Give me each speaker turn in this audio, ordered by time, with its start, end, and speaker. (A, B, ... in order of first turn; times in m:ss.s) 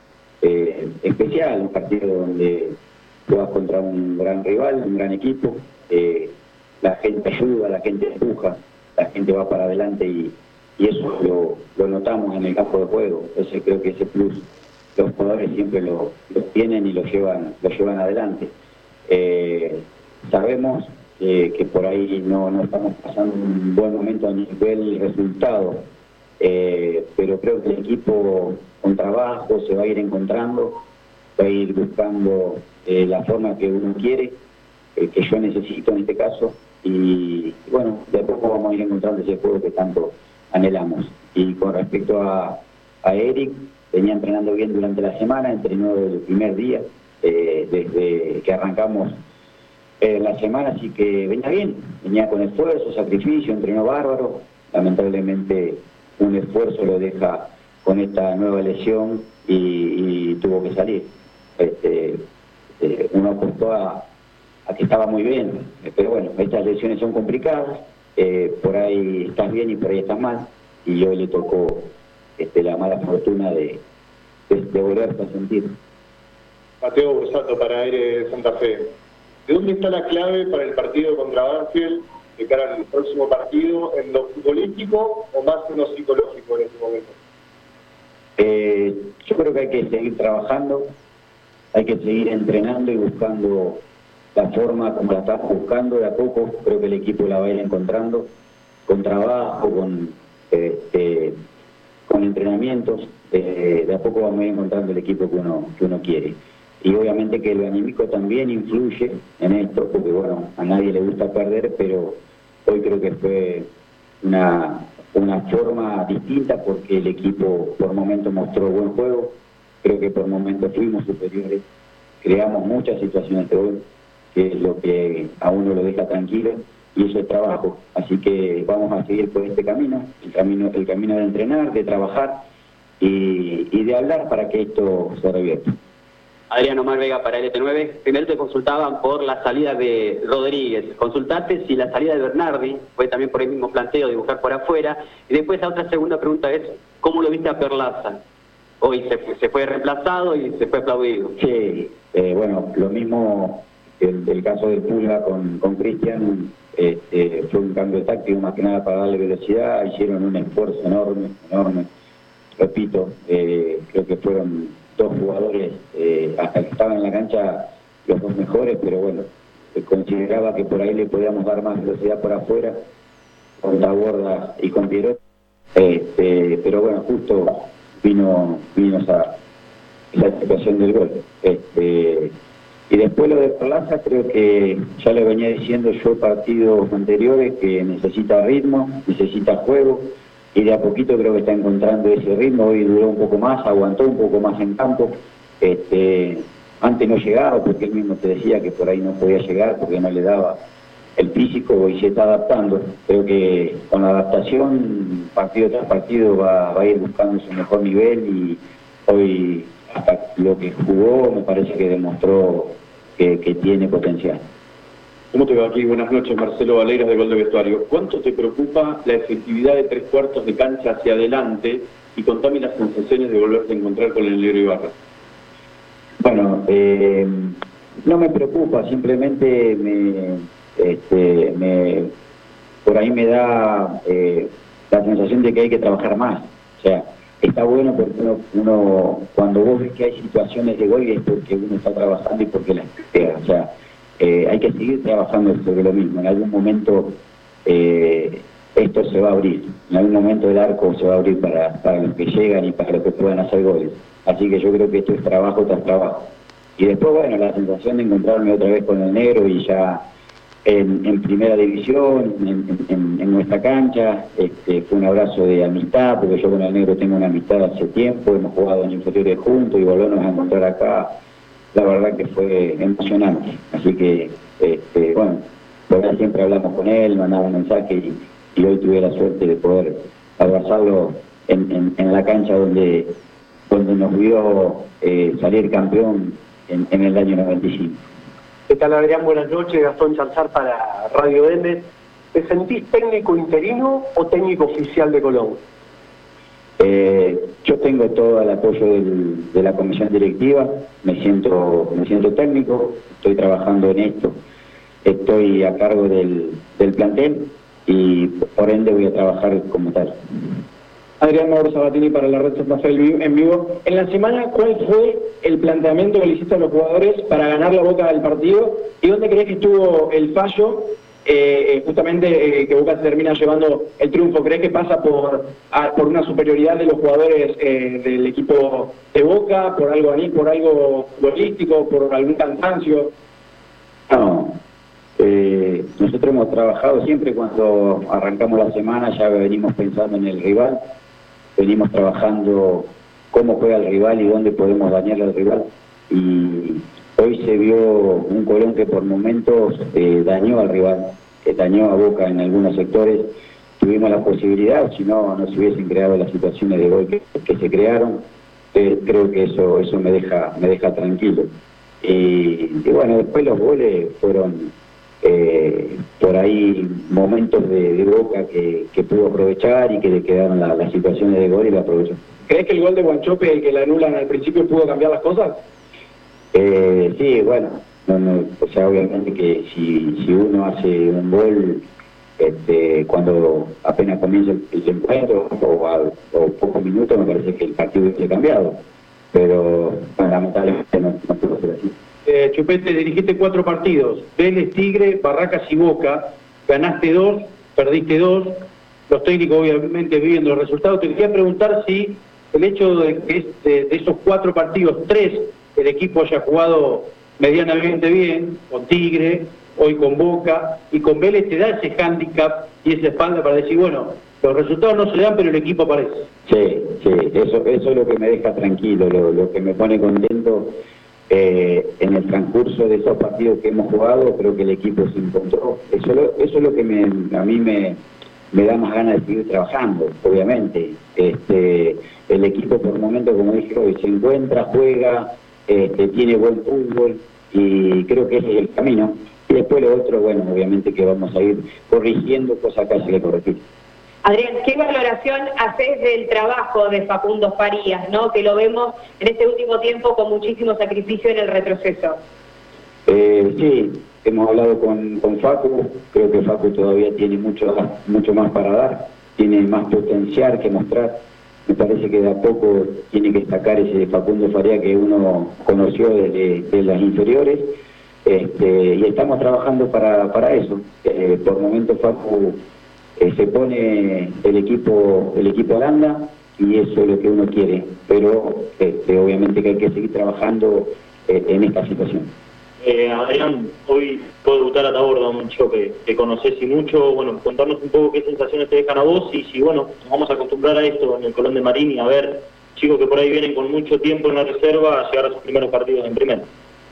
0:00.4-0:02.8 A
0:03.3-0:14.4 A
0:15.0-0:18.5 A
0:19.1-0:25.8 A
0:26.4-0:30.8 A
0:31.4-0:34.4 A
0:35.0-0:49.2 A
0:50.0-1:02.2 A
1:02.8-1:04.0 A
1:04.7-1:13.8 A
1:14.5-1:15.7 A
1:16.8-1:18.9 B
1:19.5-1:27.1 B
1:28.4-1:30.9 A
1:31.7-1:33.8 A
1:34.3-1:38.3 A
1:38.9-1:41.3 A
1:42.1-1:53.7 A
1:54.2-2:01.6 A
2:02.2-2:12.4 A
2:13.0-2:15.7 A
2:16.5-2:28.2 C
2:28.8-2:31.3 C
2:31.4-2:41.9 A
2:42.6-2:52.8 A
2:53.6-2:55.2 A
2:55.8-2:59.3 A
3:00.1-3:02.3 A
3:02.9-3:20.6 A
3:21.2-3:34.4 A
3:35.3-3:44.9 D
3:46.2-3:52.1 A
3:52.8-4:20.0 A
4:20.6-4:31.1 A
4:31.7-4:43.1 A
4:43.7-4:48.0 A
4:48.7-4:55.6 E
4:56.8-5:04.4 A
5:05.0-5:10.1 A
5:11.2-5:33.1 F
5:34.1-5:34.6 A
5:35.2-5:40.8 A
5:41.6-6:01.5 A
6:02.0-6:12.2 A
6:12.5-6:15.5 F
6:14.6-6:15.1 G
6:16.5-6:21.8 A
6:22.4-6:28.8 A
6:29.3-6:31.9 A
6:32.2-6:56.3 G
6:56.5-7:00.7 A
7:01.3-7:08.0 A
7:08.5-7:23.6 A
7:24.2-7:32.2 H
7:33.1-7:52.6 A
7:53.2-8:02.3 A
8:02.8-8:16.4 I